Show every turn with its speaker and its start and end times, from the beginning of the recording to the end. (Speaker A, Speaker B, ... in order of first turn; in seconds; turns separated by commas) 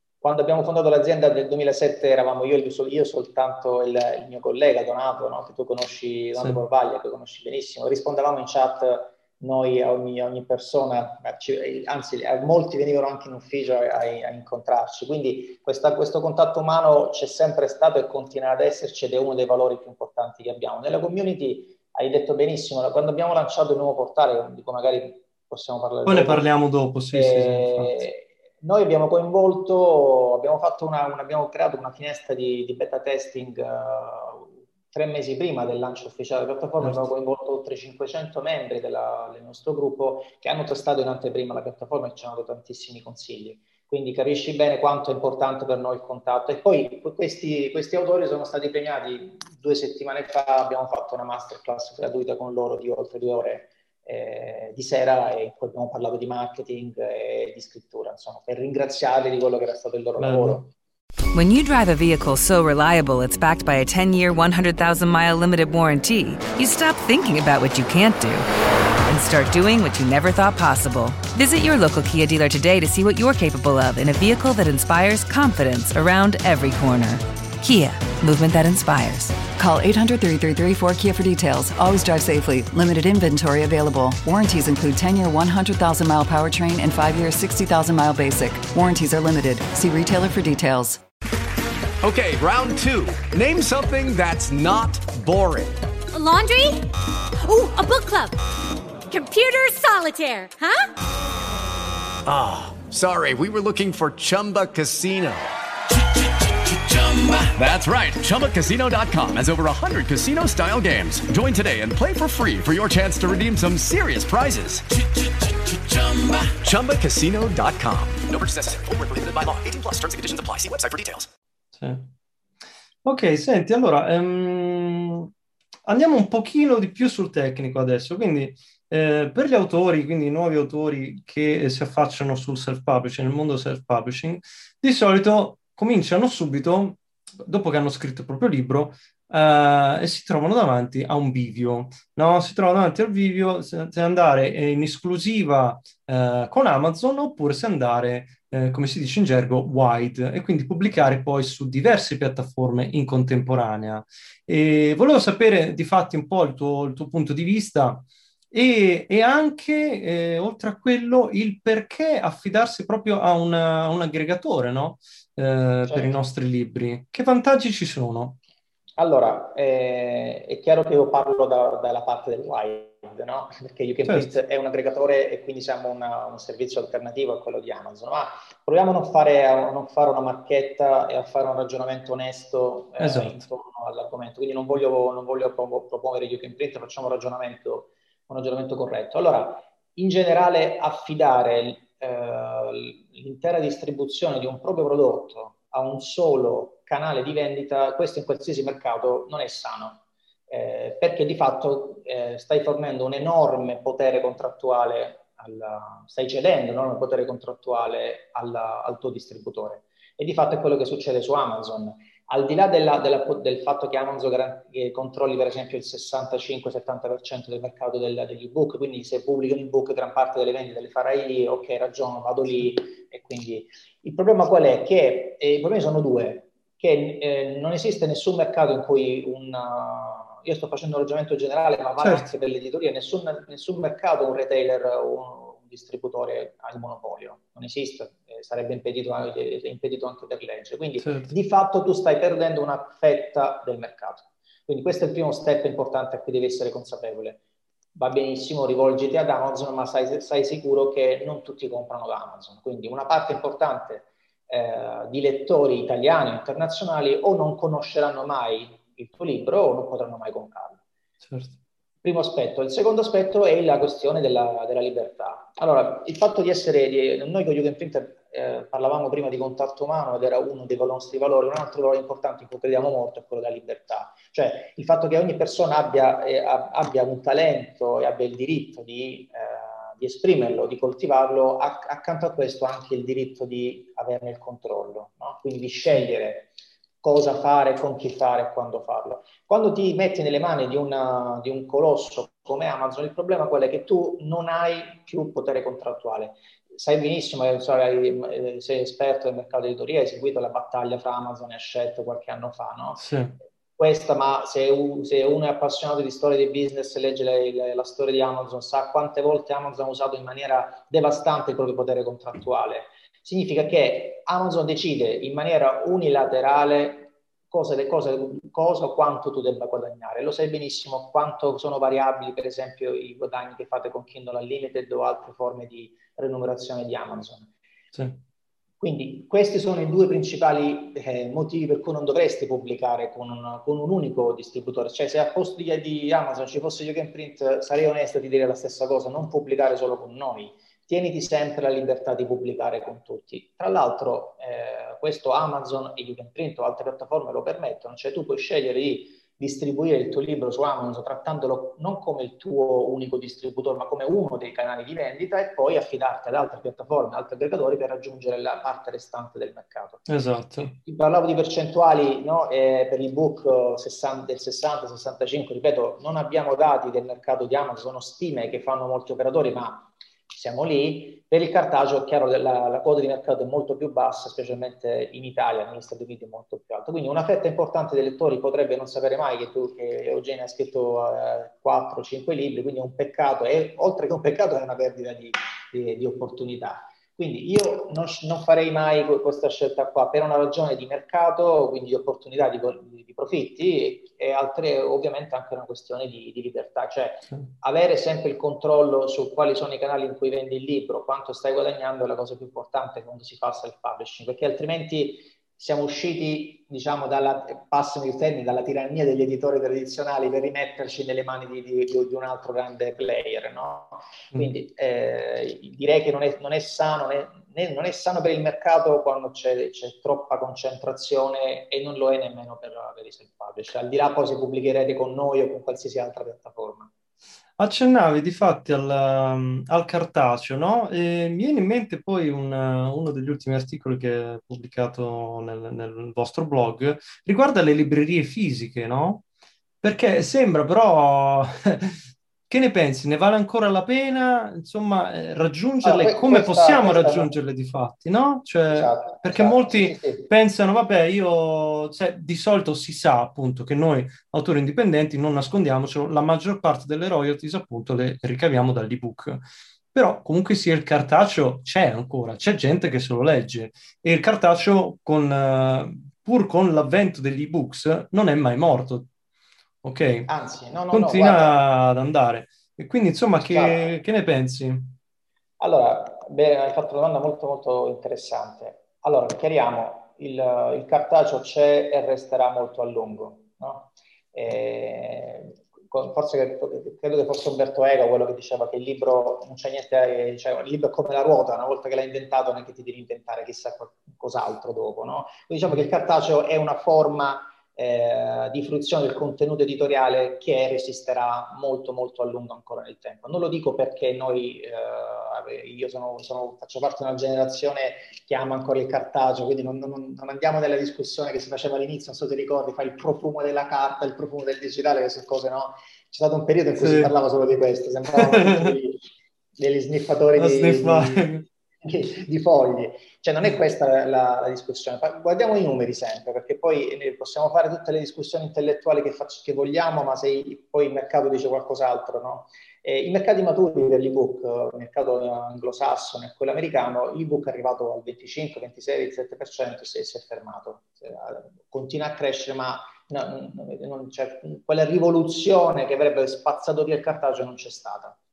Speaker A: 0.2-26.5, Speaker B: 26.1-28.0, Speaker A: 27.1-60.6, Speaker B: 36.8-37.1, Speaker B: 60.2-60.7, Speaker C: 61.3-68.5, Speaker C: 69.0-79.4, Speaker D: 79.6-91.0, Speaker E: 92.0-95.8, Speaker F: 96.1-96.8, Speaker F: 97.4-98.3, Speaker F: 99.1-100.9, Speaker E: 102.2-105.5, Speaker E: 106.6-121.3, Speaker B: 121.7-122.1, Speaker B: 123.0-125.3, Speaker B: 125.8-168.4, Speaker A: 165.9-166.2, Speaker A: 169.0-247.4, Speaker B: 174.1-174.4, Speaker B: 183.0-183.4, Speaker B: 232.0-232.3, Speaker B: 241.0-241.3, Speaker A: 247.9-260.8, Speaker B: 261.2-261.6, Speaker A: 262.0-303.0, Speaker B: 303.0-303.4, Speaker A: 303.8-327.5, Speaker A: 328.8-360.1, Speaker B: 360.1-360.7, Speaker A: 360.6-426.9, Speaker B: 427.6-439.2, Speaker B: 439.8-469.1, Speaker A: 445.8-447.3, Speaker A: 448.7-450.3, Speaker B: 469.8-470.3, Speaker A: 470.3-471.6, Speaker B: 470.9-474.9, Speaker A: 473.4-473.9, Speaker A: 475.6-519.0, Speaker B: 516.8-517.1, Speaker B: 518.2-518.7, Speaker A: 519.6-521.3, Speaker B: 520.3-521.5, Speaker A: 521.8-548.2